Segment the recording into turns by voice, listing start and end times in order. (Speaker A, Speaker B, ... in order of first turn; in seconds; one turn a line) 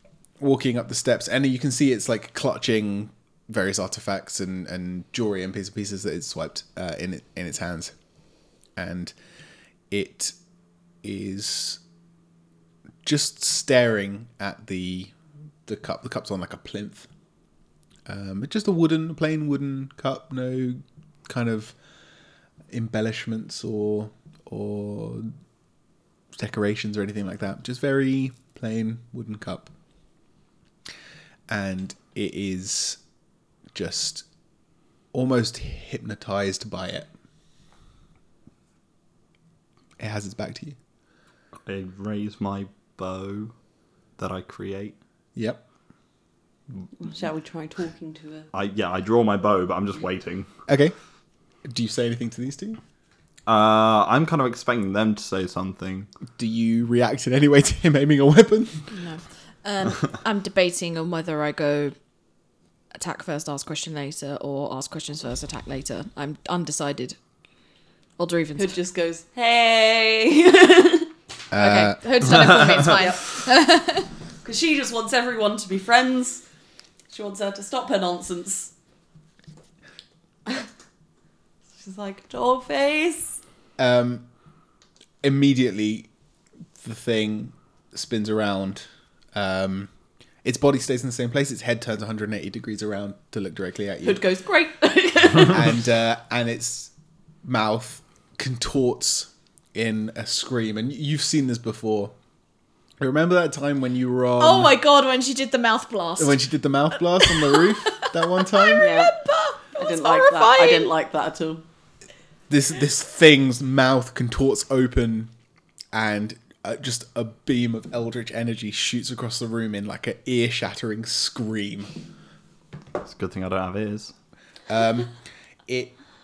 Speaker A: 0.4-7.9
Speaker A: 8.8-9.1
Speaker A: 9.9-10.3
Speaker A: 11.0-11.8
Speaker A: 13.0-15.1
Speaker A: 15.7-17.1
Speaker A: 18.1-21.8
Speaker A: 22.7-25.3
Speaker A: 26.3-29.7
Speaker A: 31.5-33.0
Speaker A: 33.7-34.2
Speaker A: 35.1-37.1
Speaker A: 40.0-40.8
Speaker B: 41.6-43.5
Speaker B: 44.2-45.0
Speaker A: 45.4-45.6
Speaker C: 47.0-48.5
Speaker B: 48.5-50.5
Speaker A: 50.7-50.9
Speaker A: 51.6-52.8
Speaker B: 53.5-56.1
Speaker A: 56.4-58.9
Speaker D: 58.9-61.9
Speaker D: 63.0-67.2
Speaker D: 68.2-68.7
Speaker C: 68.5-71.1
Speaker A: 71.5-72.0
Speaker D: 71.5-74.1
Speaker B: 72.4-72.8
Speaker C: 74.4-76.4
Speaker C: 77.1-78.7
Speaker C: 81.8-83.4
Speaker A: 83.8-84.2
Speaker A: 85.2-86.1
Speaker A: 86.8-89.9
Speaker A: 90.4-94.2
Speaker C: 94.0-95.7
Speaker A: 95.4-96.9
Speaker A: 97.4-102.1
Speaker A: 103.0-104.8
Speaker D: 104.4-106.4
Speaker A: 106.2-109.0
Speaker D: 107.0-110.9
Speaker C: 108.7-109.2
Speaker C: 109.8-111.6
Speaker A: 112.5-115.3
Speaker A: 115.9-121.9
Speaker B: 123.0-124.1
Speaker A: 124.7-125.1
Speaker A: 125.7-125.9